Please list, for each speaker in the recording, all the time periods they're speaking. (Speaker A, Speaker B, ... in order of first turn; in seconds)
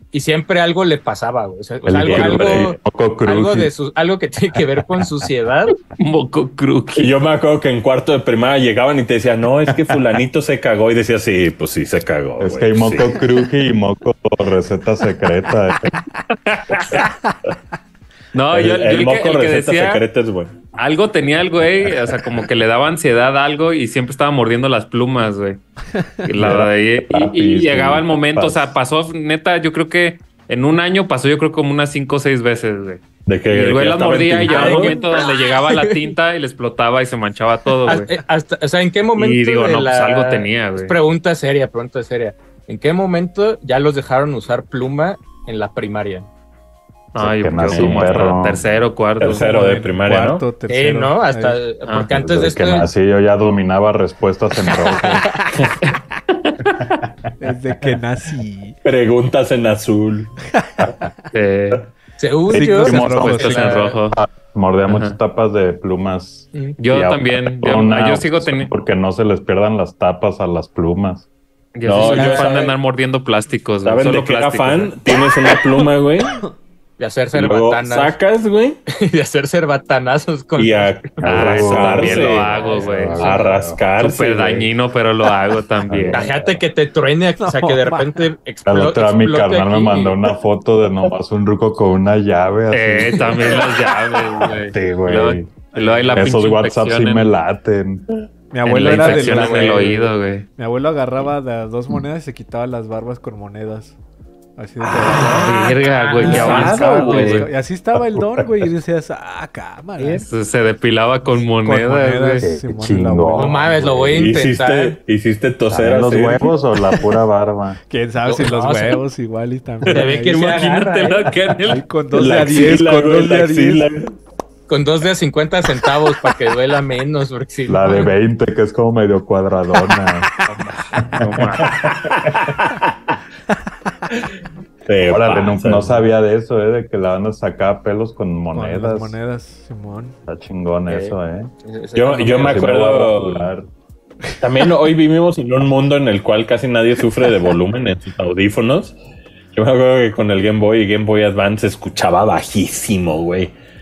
Speaker A: 0.1-5.8, 34.5-36.1, 37.8-46.3, 50.7-52.9, 54.7-55.5, 62.2-64.0, 72.0-72.4, 77.0-78.1, 78.9-83.5, 86.1-90.2, 98.8-100.0, 105.3-107.1, 113.3-115.0, 118.2-119.0, 119.8-121.3, 124.7-128.1, 130.5-131.0, 140.9-142.7
Speaker B: 1.9-3.7, 12.4-15.9, 26.4-28.8, 47.1-48.7, 52.0-55.5, 56.8-57.3, 62.5-71.3, 81.2-83.8, 85.9-86.6, 88.7-93.8, 94.4-98.0, 112.4-114.3, 115.7-117.8, 127.7-130.3, 130.9-132.6, 135.0-139.2, 140.3-141.5, 142.4-143.7
Speaker C: 1.9-2.7, 6.9-13.2, 18.5-20.6, 33.2-35.0, 47.7-48.3, 49.2-50.5, 58.8-61.0, 71.8-72.8, 73.8-76.4, 77.3-78.8, 80.6-84.7, 106.2-107.5, 114.1-116.5, 122.1-124.1, 131.6-133.2, 134.9-136.0, 141.9-143.5, 144.4-148.9, 149.5-153.5
Speaker D: 6.0-7.1, 16.3-17.1, 18.3-20.0, 20.8-25.6, 26.2-38.1, 39.1-41.0, 47.1-49.5, 51.9-52.1, 56.3-56.9, 61.3-61.9, 63.0-64.2, 64.9-65.2, 66.8-68.7, 71.7-75.0, 81.2-83.4, 84.0-86.3, 92.7-97.3, 98.6-100.5, 105.2-107.5, 110.0-112.5, 119.9-121.8, 131.1-131.8
Speaker E: 49.2-51.6, 57.4-58.8, 62.6-63.8, 72.1-72.4, 87.4-88.3, 95.7-96.3, 98.5-104.0, 104.6-105.6, 106.2-110.3, 111.4-113.7, 117.9-120.4, 121.6-123.8, 138.5-140.2